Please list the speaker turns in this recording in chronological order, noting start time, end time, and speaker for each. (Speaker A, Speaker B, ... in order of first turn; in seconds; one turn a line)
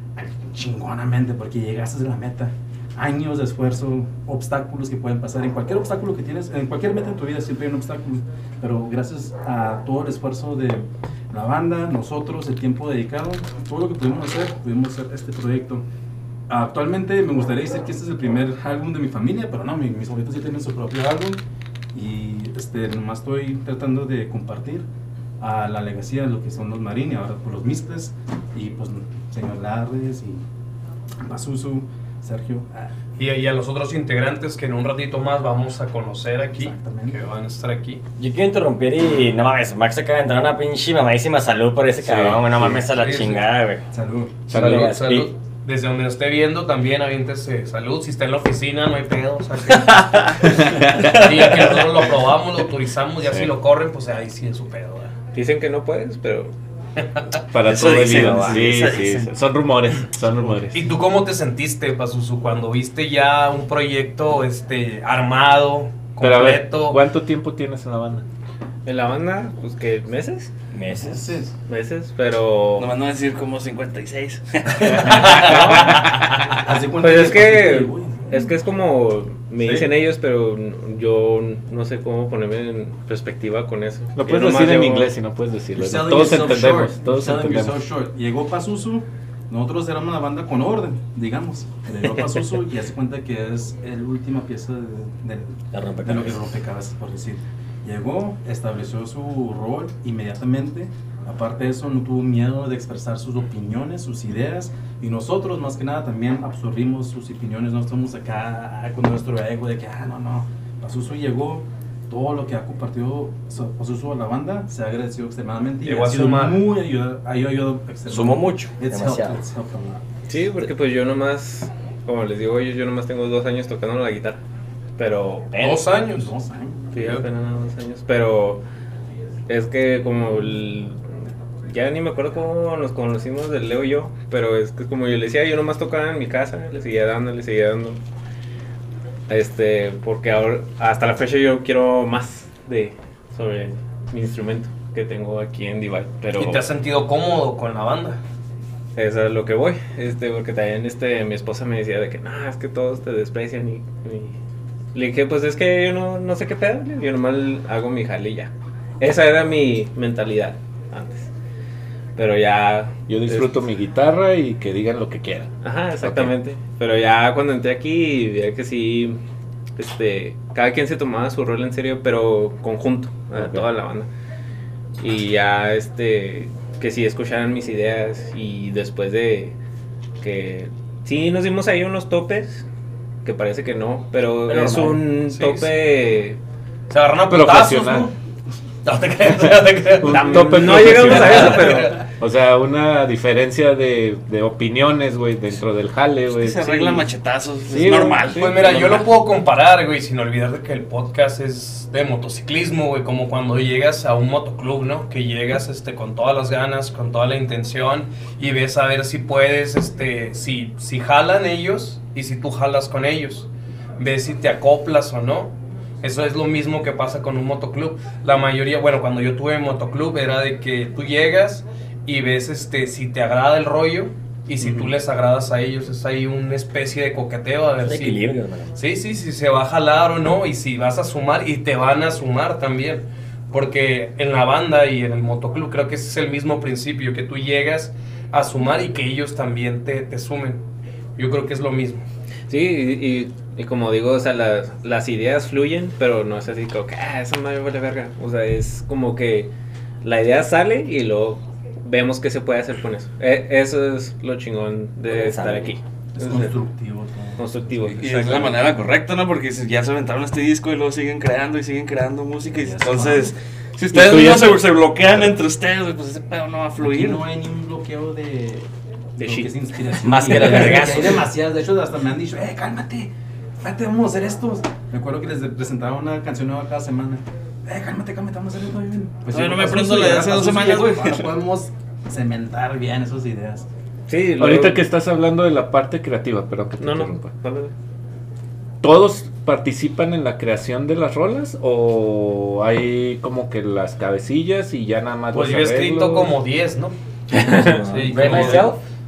Speaker A: 0.1-15.8
Speaker A: 16.5-21.4
Speaker A: 21.9-24.9
Speaker A: 25.4-30.4
Speaker A: 31.2-32.9
Speaker B: 33.2-38.0
Speaker A: 36.5-37.2
Speaker C: 38.2-43.8
Speaker D: 42.0-42.8
Speaker B: 42.9-43.4
Speaker A: 43.9-44.3
Speaker C: 44.5-45.3
Speaker B: 44.5-55.1
Speaker D: 44.5-45.0
Speaker E: 49.7-50.3
Speaker D: 50.5-51.1
Speaker E: 50.9-51.9
Speaker D: 53.2-53.5
Speaker F: 55.3-56.5
Speaker D: 57.5-60.8
Speaker E: 57.5-59.3
Speaker B: 60.7-67.0
Speaker D: 66.2-68.2
Speaker F: 68.8-70.5
Speaker C: 70.7-71.4
Speaker A: 70.9-71.5
Speaker F: 71.7-72.9
Speaker E: 72.8-76.0
Speaker F: 75.2-76.1
Speaker A: 76.6-78.5
Speaker F: 77.0-85.1
Speaker A: 79.6-79.9
Speaker D: 84.1-87.8
Speaker B: 85.8-86.8
Speaker F: 86.1-86.6
Speaker A: 86.2-120.0
Speaker C: 95.7-96.4
Speaker B: 115.8-116.7
Speaker C: 118.1-119.4
Speaker F: 120.3-124.4
Speaker F: 125.0-125.7
Speaker C: 125.5-125.8
Speaker B: 125.6-126.3
Speaker A: 126.0-127.1
Speaker F: 126.9-128.6
Speaker F: 129.5-131.0
Speaker F: 131.6-138.0
Speaker F: 139.3-146.6
Speaker B: 146.3-148.2
Speaker F: 148.9-154.3
Speaker F: 154.9-161.3
Speaker F: 162.2-163.6
Speaker D: 163.1-166.3
Speaker F: 165.6-169.2
Speaker F: 169.8-174.1
Speaker D: 173.3-173.7
Speaker F: 175.0-179.5
Speaker F: 180.2-182.6
Speaker F: 183.2-186.4
Speaker B: 185.2-185.7
Speaker B: 186.9-188.1
Speaker D: 187.3-188.1
Speaker B: 188.8-192.1
Speaker D: 189.4-197.1
Speaker F: 190.0-192.0
Speaker E: 196.3-199.1
Speaker F: 197.7-199.0
Speaker B: 198.3-240.6
Speaker A: 224.6-224.9
Speaker C: 227.8-228.8
Speaker B: 241.2-242.0
Speaker F: 242.5-249.5
Speaker F: 250.0-256.6
Speaker C: 255.1-255.8
Speaker A: 256.1-258.0
Speaker F: 257.4-258.7
Speaker E: 257.9-267.2
Speaker A: 262.5-263.3
Speaker D: 263.9-264.6
Speaker A: 266.8-283.7
Speaker F: 269.2-269.5
Speaker C: 270.0-271.2
Speaker E: 279.3-281.3
Speaker F: 284.1-284.9
Speaker D: 284.4-287.3
Speaker F: 286.8-287.7
Speaker D: 288.8-296.3
Speaker B: 295.3-296.9
Speaker C: 297.3-298.8
Speaker B: 297.7-298.7